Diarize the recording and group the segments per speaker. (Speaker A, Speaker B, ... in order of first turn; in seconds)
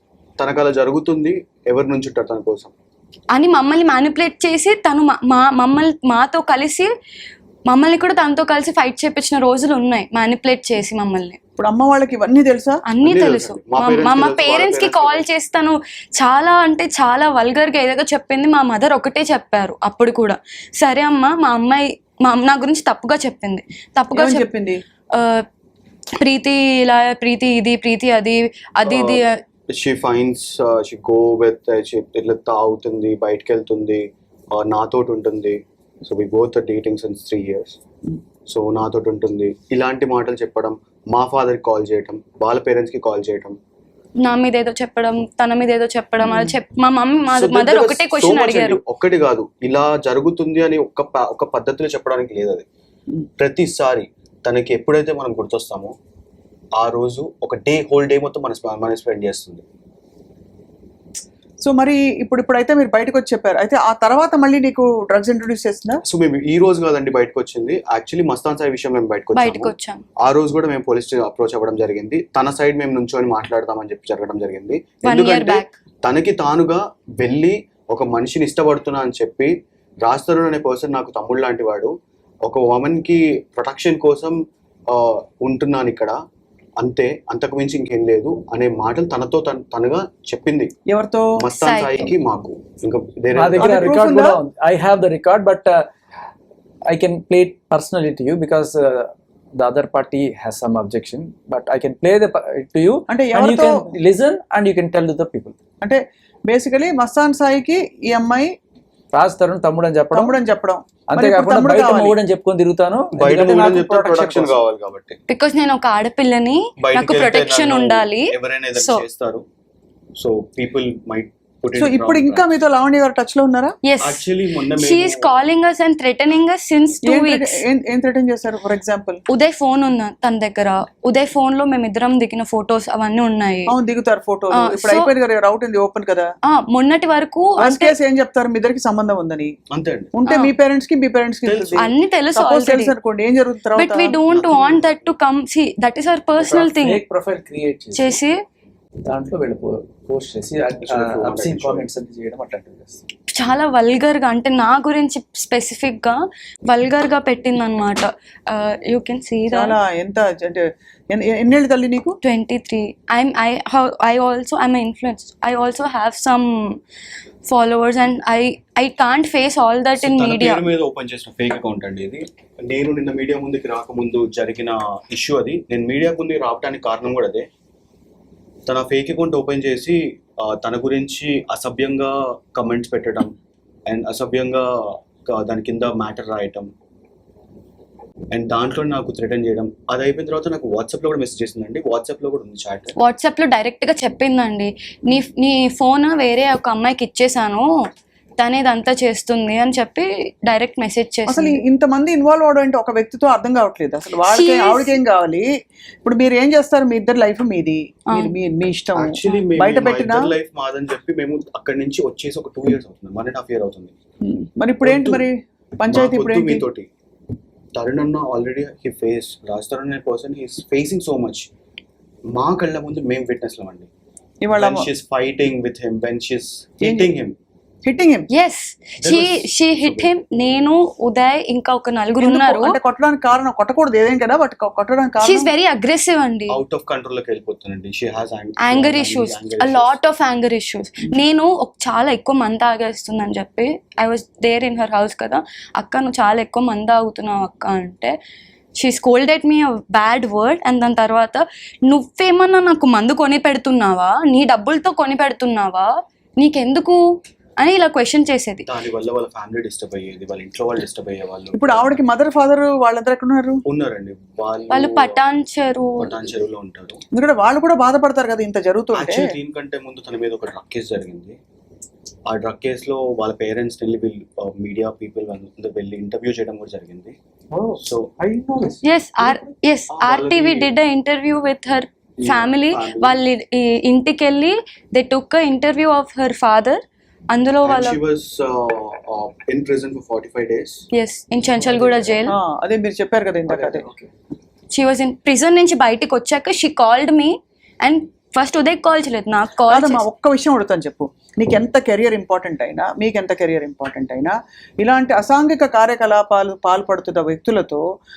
Speaker A: 0.4-2.7, 13.0-15.2, 28.9-37.8, 38.5-43.6, 47.3-52.6, 53.4-55.9, 56.8-59.6, 66.0-84.4, 84.9-86.2, 86.8-90.7, 91.4-94.1, 113.1-115.2, 116.8-119.5, 120.2-122.5, 124.0-125.3, 139.7-140.1, 141.4-141.9, 144.3-145.1, 150.8-151.9, 170.0-177.5, 178.7-183.3, 183.9-186.7, 188.3-192.9, 208.9-213.9, 214.8-215.3, 215.9-216.9, 217.8-221.5, 222.3-223.9, 224.6-227.4, 229.0-230.1, 236.5-240.0, 258.6-261.9, 263.6-265.2, 266.0-267.0, 268.9-271.4, 272.3-277.2, 277.8-278.1, 279.9-280.7, 282.2-283.2, 287.6-290.8, 291.7-292.2
Speaker B: 3.3-6.9, 7.7-11.4, 12.9-24.5, 25.1-25.5, 26.2-29.4, 44.2-48.8, 69.3-70.0, 75.0-75.7, 91.6-92.1, 115.3-119.0, 123.8-127.6, 129.3-133.7, 134.5-135.1, 136.4-137.9, 140.3-140.5, 141.8-142.9, 143.8-147.0, 147.9-148.4, 153.3-159.8, 162.2-166.8, 167.5-170.6, 193.0-197.7, 198.4-201.6, 204.3-205.0, 228.3-232.8, 235.2-236.6, 238.6-248.2, 248.8-257.0, 257.6-258.7, 264.7-266.2, 278.8-288.0, 290.9-292.3, 294.7-300.0
Speaker C: 11.6-12.8, 24.1-24.8, 46.2-46.5, 61.6-66.0, 90.9-91.3, 93.6-94.4, 103.1-103.9, 105.8-108.5, 110.1-112.2, 121.8-123.8, 127.0-129.2, 133.7-136.3, 137.6-139.6, 140.1-144.2, 159.5-162.2, 201.3-205.5, 206.1-210.3, 214.2-216.7, 224.4-224.9, 226.8-227.1, 227.9-228.3, 232.2-235.5, 261.5-263.6, 267.1-269.3, 292.3-293.9, 299.7-307.8
Speaker D: 93.4-95.9, 96.9-105.6, 109.1-110.4, 111.1-114.6, 146.4-148.2, 149.1-153.0, 277.5-279.4, 293.5-294.1